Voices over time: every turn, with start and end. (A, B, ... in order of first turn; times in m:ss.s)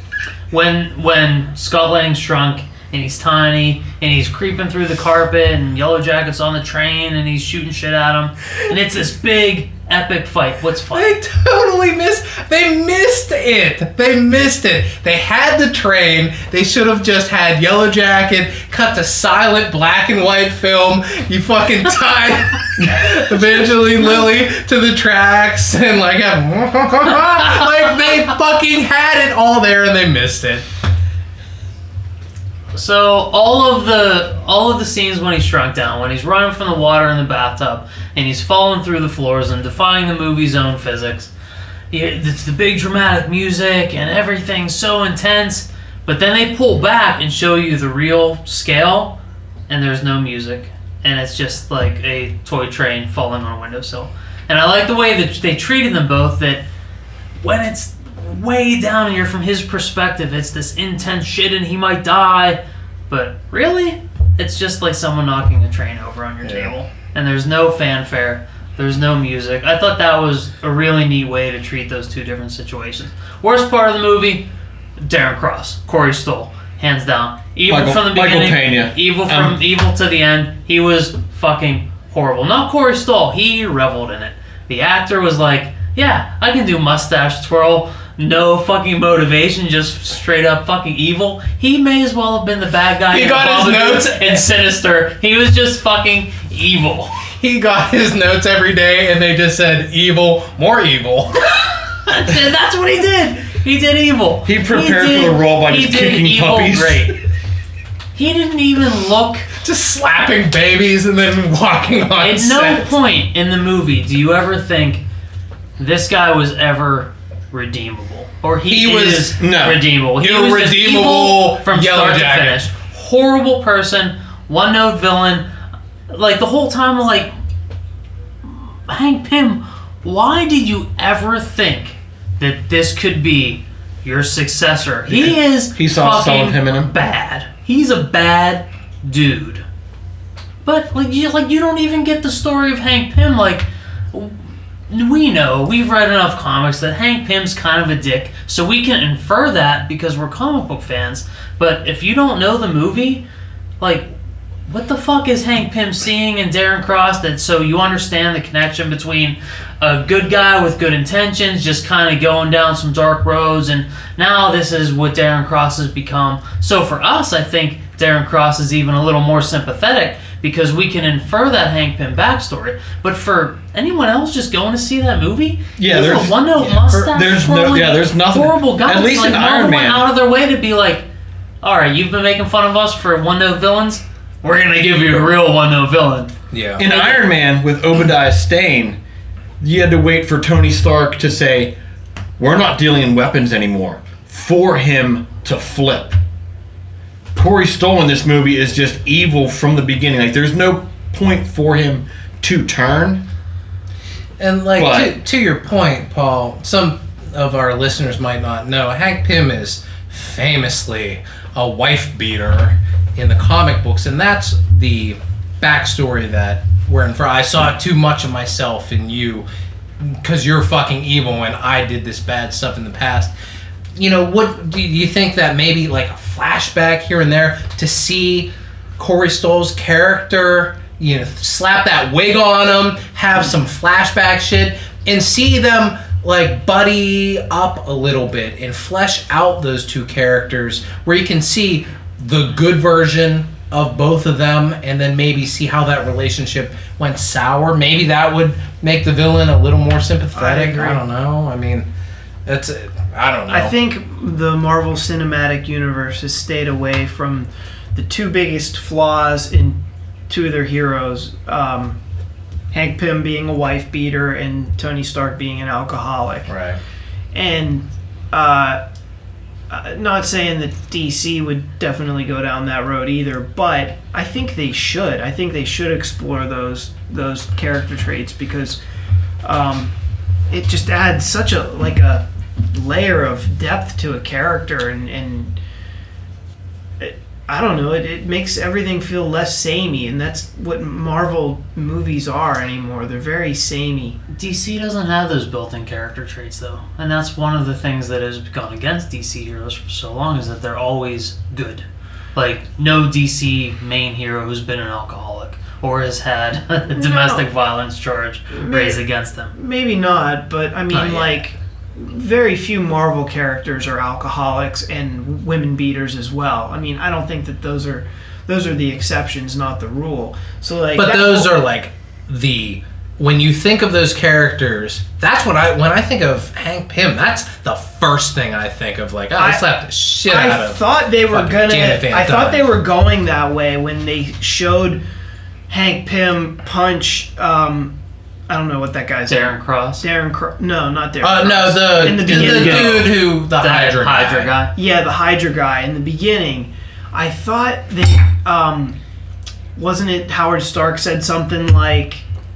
0:00.5-0:11.2 A
0:10.9-0:30.7 B
0:32.7-0:41.3 A
0:41.9-0:49.2 A
0:49.7-0:56.6 A
0:57.4-1:14.5 A
1:06.4-1:06.7 B
1:15.0-1:37.2 A
1:17.7-1:19.6 C
1:33.1-1:34.4 B
1:37.4-1:41.4 B
1:42.0-1:47.2 A
1:44.4-1:47.1 C
1:48.1-1:49.5 A
1:49.6-1:52.9 B
1:52.2-1:55.0 A
1:55.8-2:05.5 A
1:58.6-1:59.4 B
1:59.4-1:59.9 C
2:00.1-2:02.6 B
2:06.1-2:07.3 A
2:08.4-2:19.6 A
2:15.1-2:16.9 C
2:20.6-2:24.3 A
2:24.9-2:33.2 A
2:33.8-2:34.1 A
2:34.7-3:01.1 A
2:55.8-2:56.4 C
2:56.6-2:57.1 B
2:56.9-3:00.1 C
3:01.6-3:07.3 A
3:06.5-3:06.8 B
3:06.8-3:09.0 C
3:09.6-3:11.7 C
3:12.4-3:16.2 C
3:17.3-3:23.2 C
3:24.4-3:39.4 B
3:24.8-3:25.1 C
3:40.0-3:43.3 B
3:44.0-4:11.9 B
4:10.3-4:11.0 D
4:12.4-4:13.7 B
4:13.5-4:22.0 D
4:22.7-4:26.5 D
4:26.5-4:26.8 B
4:27.3-4:28.8 D
4:29.7-4:38.8 D
4:39.4-4:39.9 D
4:40.5-4:45.6 D
4:47.0-4:54.2 D
4:54.3-5:09.5 A
5:06.9-5:07.4 D
5:08.5-5:09.0 D
5:09.5-5:21.5 D
5:10.9-5:11.4 B
5:20.9-5:32.7 B
5:29.4-5:29.6 D
5:30.2-5:35.0 D
5:35.7-5:38.0 D
5:38.5-5:43.1 D
5:39.3-5:40.0 A
5:41.2-5:44.5 B
5:42.1-5:43.1 C
5:43.5-5:44.7 A
5:44.7-5:49.0 D
5:49.7-5:52.2 D